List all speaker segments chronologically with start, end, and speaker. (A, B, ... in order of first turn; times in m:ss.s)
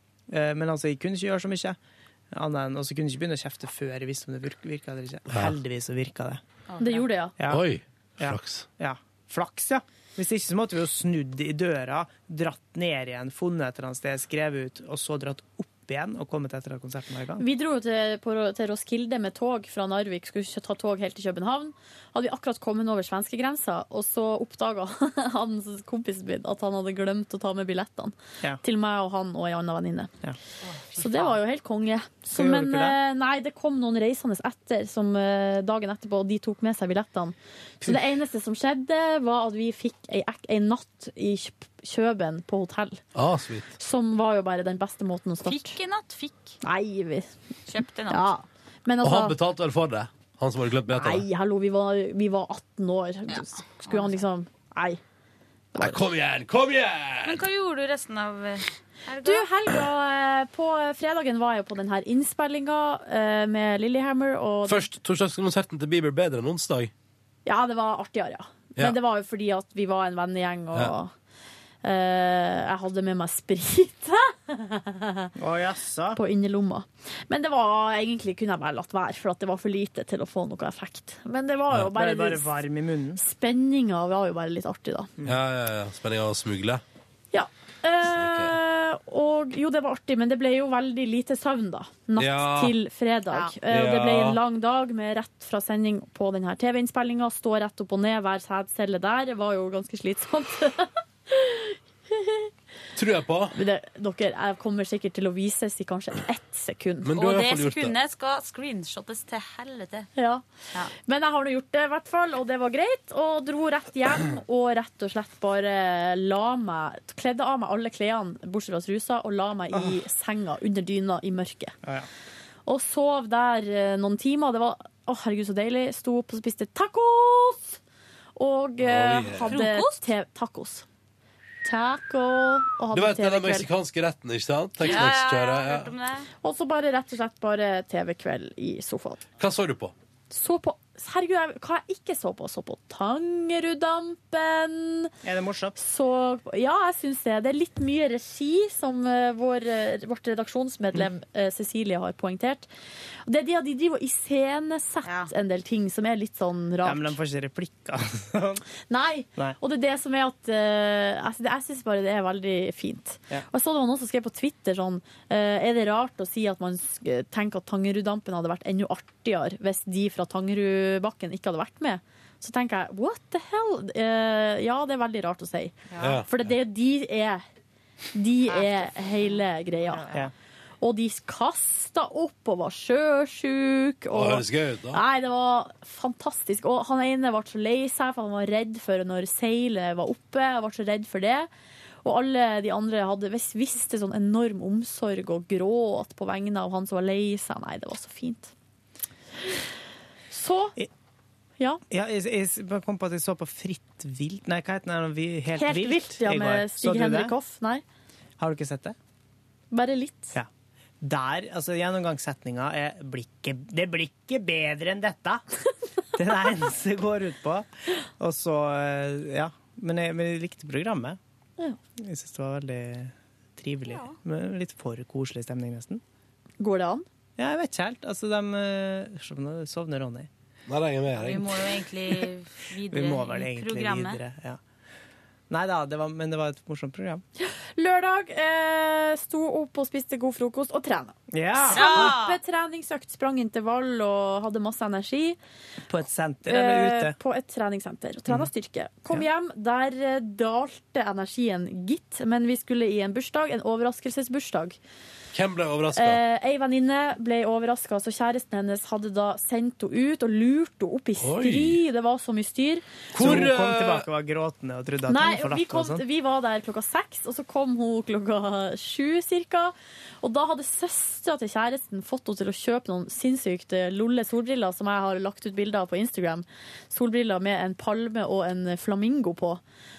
0:00.3-0:01.8 A
0:02.3-0:06.4 A
0:05.3-0:05.6 B
0:06.7-0:07.1 C
0:06.8-0:07.3 D
0:07.4-0:07.6 A
0:07.5-0:08.7 B
0:08.2-0:17.4 A
0:17.4-0:30.1 D
0:30.6-0:31.4 C
0:31.0-0:43.0 D
0:32.3-0:33.0 A
0:43.1-0:43.7 B
0:43.8-0:45.8 D
0:45.4-0:46.6 C
0:46.6-0:47.3 D
0:47.7-0:48.3 C
0:48.1-0:49.4 D
0:49.0-0:51.2 B
0:50.9-0:55.0 D
0:53.3-0:54.1 C
0:55.7-0:56.0 D
0:55.8-0:57.4 B
0:57.2-0:59.5 C
0:59.2-1:04.9 D
1:04.6-1:06.9 B
1:07.4-1:11.1 D
1:11.8-1:15.3 D
1:15.4-1:16.2 A
1:16.1-1:22.6 D
1:21.8-1:23.2 A
1:23.2-1:25.1 D
1:25.2-1:26.8 B
1:27.3-1:42.5 D
1:28.1-1:28.6 B
1:32.2-1:32.7 B
1:33.6-1:34.4 B
1:42.9-1:43.5 B
1:43.5-1:47.1 D
1:47.0-1:47.9 B
1:47.1-1:50.1 C
1:50.2-1:50.4 D
1:51.0-2:01.7 D
1:59.7-2:00.0 A
2:02.6-2:07.8 D
2:08.4-2:10.8 D
2:08.8-2:09.6 B
2:09.4-2:10.1 C
2:11.6-2:13.7 D
2:12.9-2:15.9 B
2:14.8-2:16.3 C
2:16.4-2:19.2 D
2:19.4-2:19.9 B
2:20.3-2:25.1 D
2:25.2-2:25.8 A
2:25.8-2:32.7 D
2:33.2-2:37.2 D
2:35.0-2:35.3 C
2:36.8-2:38.6 A
2:38.9-2:57.4 D
2:55.9-2:56.2 C
2:56.0-2:56.3 B
2:58.1-3:00.1 D
2:58.4-2:59.4 C
3:00.8-3:11.5 D
3:04.1-3:05.0 B
3:12.0-3:18.5 D
3:20.3-3:20.8 D
3:21.9-3:27.3 A
3:25.6-3:27.8 D
3:28.4-3:29.0 A
3:29.7-3:30.4 D
3:31.0-3:35.4 A
3:36.1-3:37.7 A
3:38.2-3:41.2 A
3:42.0-3:46.0 A
3:43.9-3:44.1 C
3:46.6-3:47.0 D
3:47.4-3:50.3 A
3:50.7-3:51.6 B
3:51.2-3:54.2 C
3:52.9-3:54.6 A
3:55.5-3:57.2 A
3:57.4-4:01.2 D
4:01.3-4:02.2 A
4:01.7-4:02.4 C
4:01.7-4:05.4 D
4:05.9-4:07.2 A
4:06.5-4:14.8 D
4:15.3-4:16.2 B
4:15.9-4:22.9 D
4:21.2-4:21.8 B
4:23.1-4:24.1 B
4:23.1-4:26.0 A
4:25.1-4:39.6 D